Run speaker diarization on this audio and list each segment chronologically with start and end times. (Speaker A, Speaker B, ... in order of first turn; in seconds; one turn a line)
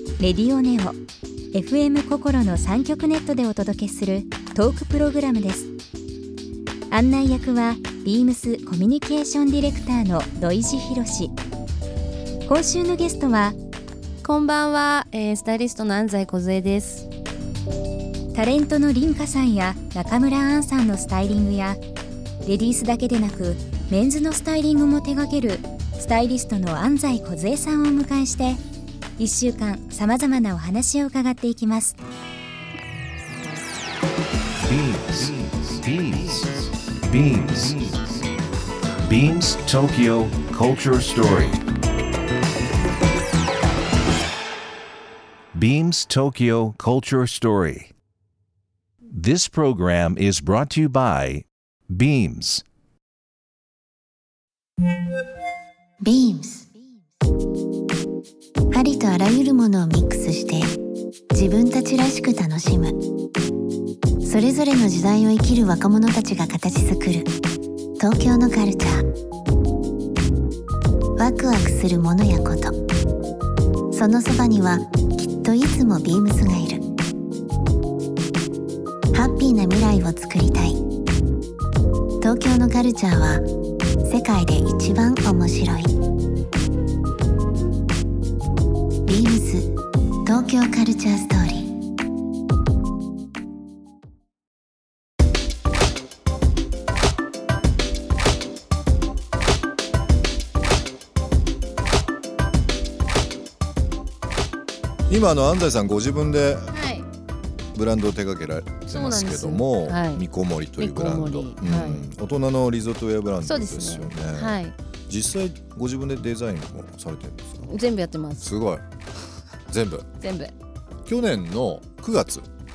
Speaker A: 0.2-1.0
Speaker A: 1.5-5.7
Speaker A: 6.9-11.3
Speaker A: 12.5-13.6
Speaker B: 14.2-17.1
Speaker A: 18.3-21.8
Speaker A: 22.4-28.6
Speaker A: 29.2-32.0
Speaker C: 34.6-38.2
Speaker C: 39.0-41.6
Speaker C: 45.5-47.9
Speaker C: 49.1-52.6
Speaker D: 56.0-56.7
Speaker D: 58.7-60.8
Speaker D: 61.3-63.0
Speaker D: 64.2-67.3
Speaker D: 68.0-69.1
Speaker D: 71.2-72.8
Speaker D: 73.9-76.9
Speaker D: 79.1-80.8
Speaker D: 82.2-83.5
Speaker D: 84.0-86.0
Speaker D: 89.1-89.7
Speaker D: 90.2-91.7
Speaker E: 105.1-106.8
Speaker B: 106.7-107.1
Speaker E: 107.7-117.7
Speaker B: 108.9-110.2
Speaker B: 110.8-112.1
Speaker B: 113.4-114.8
Speaker B: 117.7-118.5
Speaker E: 118.4-118.8
Speaker E: 119.7-120.1
Speaker B: 120.2-120.5
Speaker E: 121.1-122.5